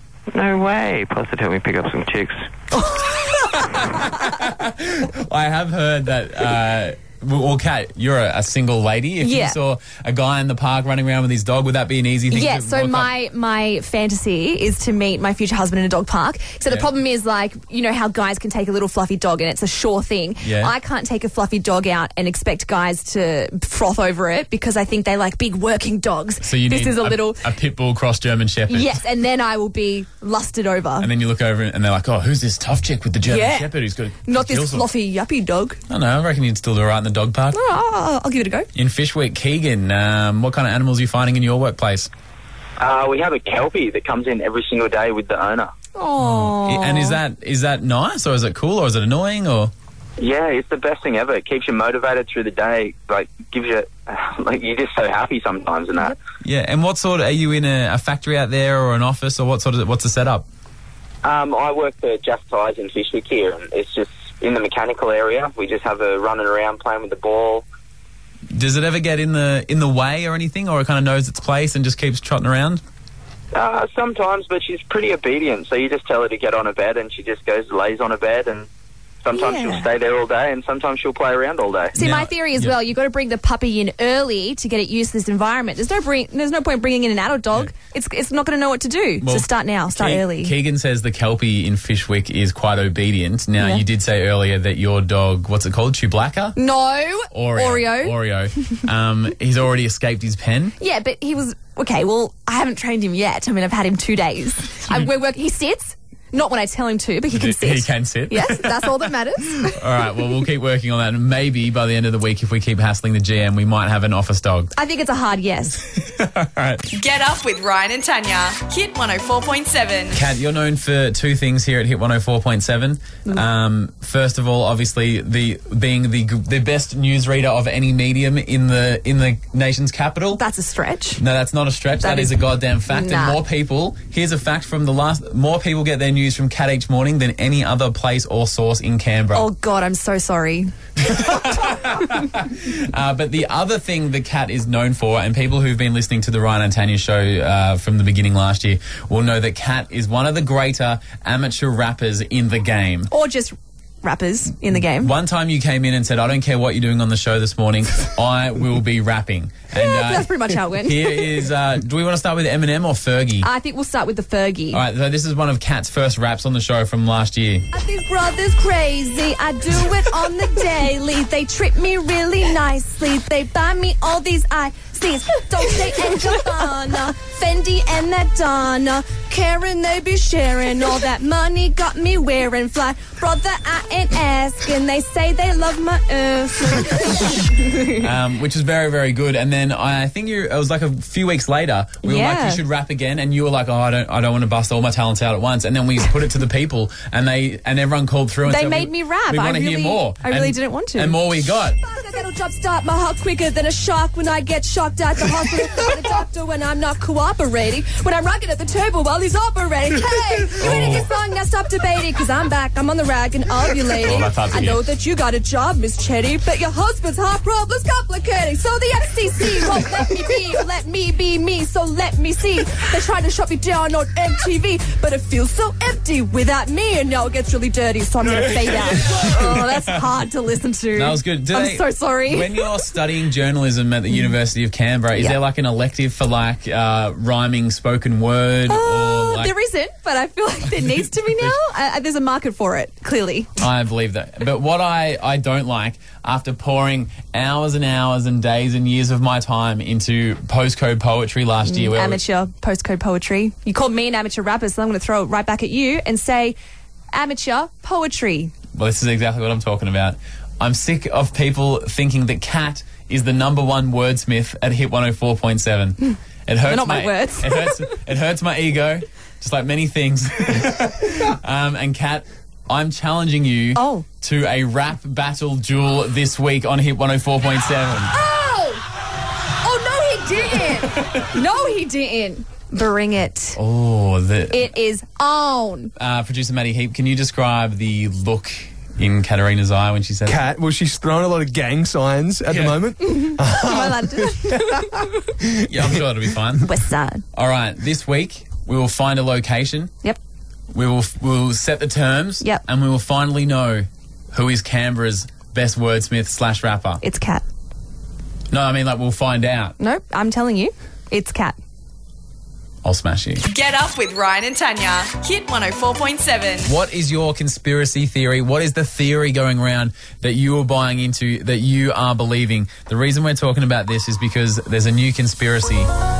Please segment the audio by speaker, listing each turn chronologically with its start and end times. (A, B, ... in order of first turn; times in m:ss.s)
0:00.3-0:02.5 A
0:02.7-0:03.6 B
0:02.8-0:13.1 C
0:09.2-0:09.6 B
0:12.3-0:27.4 B
0:20.4-0:20.7 C
0:26.4-0:29.0 C
0:28.7-0:31.1 B
0:31.0-0:34.9 C
0:33.2-0:33.7 B
0:34.2-0:35.8 B
0:35.9-0:37.6 C
0:37.5-0:38.7 B
0:38.7-0:42.1 C
0:42.8-0:45.7 D
0:46.0-0:47.2 B
0:46.2-0:49.7 C
0:50.2-0:56.2 D
0:56.4-1:00.4 C
1:01.2-1:07.6 D
1:08.5-1:12.8 C
1:13.5-1:18.7 D
1:19.2-1:21.9 D
1:19.3-1:19.9 B
1:21.9-1:30.5 B
1:22.0-1:22.7 C
1:29.2-1:36.6 C
1:33.6-1:33.8 B
1:36.6-1:38.2 B
1:37.3-1:40.7 C
1:40.8-1:49.8 B
1:47.3-1:49.0 C
1:49.6-1:54.7 C
1:54.8-1:55.8 B
1:55.9-1:56.8 C
1:56.9-2:00.2 E
2:00.1-2:10.4 C
2:10.4-2:11.2 B
2:11.2-2:19.5 C
2:12.0-2:13.4 B
2:19.3-2:20.7 B
2:21.0-2:33.1 C
2:33.1-2:35.1 B
2:35.0-2:43.5 C
2:39.7-2:41.3 B
2:43.4-2:44.8 B
2:44.7-2:47.7 C
2:47.7-3:08.0 B
3:08.0-3:21.8 C
3:12.0-3:12.6 B
3:18.4-3:21.2 B
3:21.8-3:52.6 B
3:30.6-3:31.1 C
3:33.9-3:34.8 C
3:48.2-3:50.0 C
3:50.9-3:59.5 C
3:58.7-4:03.5 B
4:01.2-4:01.5 C
4:03.6-4:12.2 C
4:11.7-4:16.6 B
4:17.1-4:18.5 B
4:18.7-4:38.1 C
4:26.6-4:27.9 B
4:33.7-4:34.0 B
4:38.1-4:38.8 B
4:39.6-4:43.6 B
4:43.6-4:44.7 C
4:44.5-4:45.9 B
4:46.0-4:50.5 C
4:50.2-4:55.9 F
4:52.5-4:52.8 C
4:53.0-4:55.1 B
4:55.7-4:56.7 C
4:56.6-4:57.2 B
4:57.3-4:59.9 C
5:00.7-5:07.0 C
5:07.0-5:07.4 B
5:08.5-5:09.8 C
5:09.8-5:11.6 B
5:12.8-5:13.4 C
5:13.5-5:16.7 E
5:16.6-5:25.9 C